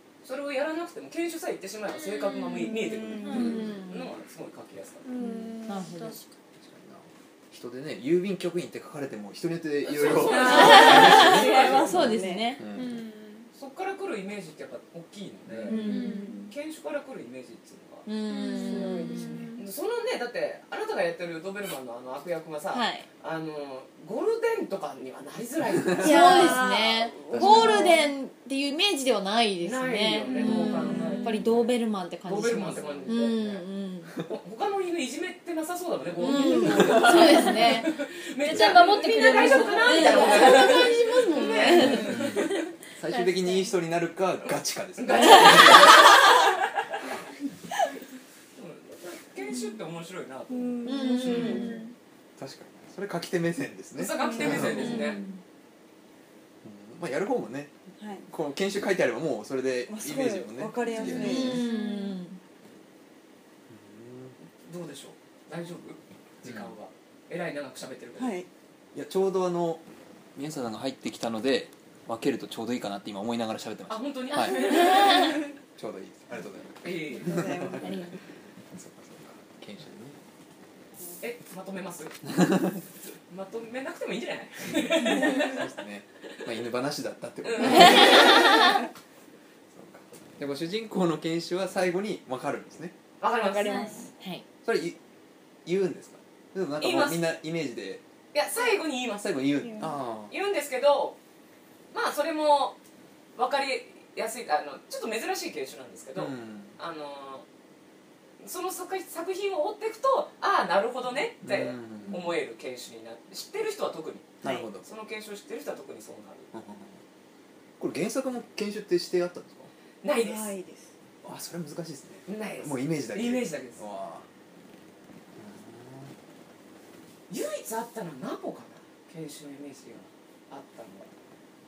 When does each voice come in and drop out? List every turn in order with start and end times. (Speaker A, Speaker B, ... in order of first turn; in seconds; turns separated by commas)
Speaker A: 0.2-5.1, Speaker B: 2.6-3.7, Speaker C: 3.2-3.6, Speaker D: 3.3-4.1, Speaker C: 5.0-6.3, Speaker B: 5.2-5.6, Speaker D: 5.7-6.2, Speaker E: 6.6-13.0, Speaker A: 9.8-11.9, Speaker B: 10.3-12.6, Speaker D: 10.3-12.6, Speaker C: 12.7-13.5, Speaker A: 13.5-15.8, Speaker E: 15.5-15.7, Speaker D: 15.7-16.4, Speaker C: 15.7-16.5, Speaker B: 15.7-16.5, Speaker A: 16.5-18.1, Speaker D: 18.1-19.1, Speaker C: 18.3-19.6, Speaker B: 18.6-19.6, Speaker A: 19.6-26.6, Speaker D: 22.7-23.1, Speaker D: 25.9-34.1, Speaker B: 26.0-28.1, Speaker E: 27.3-27.9, Speaker A: 29.6-33.7, Speaker B: 30.6-31.1, Speaker E: 32.6-33.2, Speaker A: 34.2-42.6, Speaker D: 36.2-37.9, Speaker B: 36.4-36.9, Speaker C: 36.9-37.8, Speaker C: 38.4-40.9, Speaker E: 38.5-38.8, Speaker D: 39.8-42.2, Speaker B: 40.4-40.7, Speaker C: 41.5-43.7, Speaker E: 42.0-46.3, Speaker A: 45.0-46.5, Speaker D: 45.2-45.6, Speaker A: 48.5-51.7, Speaker B: 50.5-51.9, Speaker D: 50.8-51.7, Speaker C: 51.2-51.9, Speaker E: 52.4-55.0, Speaker A: 54.0-55.2, Speaker B: 54.2-55.2, Speaker D: 54.6-55.4, Speaker E: 56.6-57.7, Speaker B: 58.0-58.3, Speaker E: 58.3-61.6, Speaker B: 59.9-61.6, Speaker D: 60.9-62.4, Speaker C: 61.0-62.2, Speaker E: 63.7-64.3, Speaker A: 64.4-68.4, Speaker E: 66.4-66.7, Speaker B: 68.2-68.5, Speaker E: 68.9-69.8, Speaker E: 70.3-74.8, Speaker A: 73.9-75.5, Speaker B: 74.8-75.2, Speaker D: 74.9-75.2, Speaker E: 75.7-78.1, Speaker A: 76.8-77.4, Speaker B: 77.1-78.2, Speaker E: 78.7-80.2, Speaker A: 81.2-82.2, Speaker E: 82.3-82.8, Speaker A: 83.3-85.7, Speaker E: 84.7-88.6, Speaker A: 87.4-88.7, Speaker D: 87.7-88.5, Speaker B: 88.4-88.7, Speaker E: 89.7-92.9, Speaker A: 93.2-94.0, Speaker B: 93.3-94.1, Speaker C: 93.6-94.0, Speaker D: 94.2-94.4, Speaker E: 94.6-95.0, Speaker E: 95.6-98.0, Speaker A: 96.8-97.2, Speaker A: 98.3-99.3, Speaker E: 99.2-100.3, Speaker B: 99.6-99.9, Speaker A: 100.3-101.2, Speaker A: 101.9-102.8, Speaker A: 103.3-107.5, Speaker E: 106.2-106.8, Speaker A: 108.4-116.5, Speaker E: 111.4-112.3, Speaker B: 112.0-112.3, Speaker E: 114.4-114.9, Speaker E: 116.5-117.0, Speaker E: 117.8-119.7, Speaker A: 120.0-120.5, Speaker B: 120.1-120.9, Speaker E: 121.2-124.3, Speaker A: 122.3-123.8, Speaker E: 125.3-126.1, Speaker A: 127.3-131.1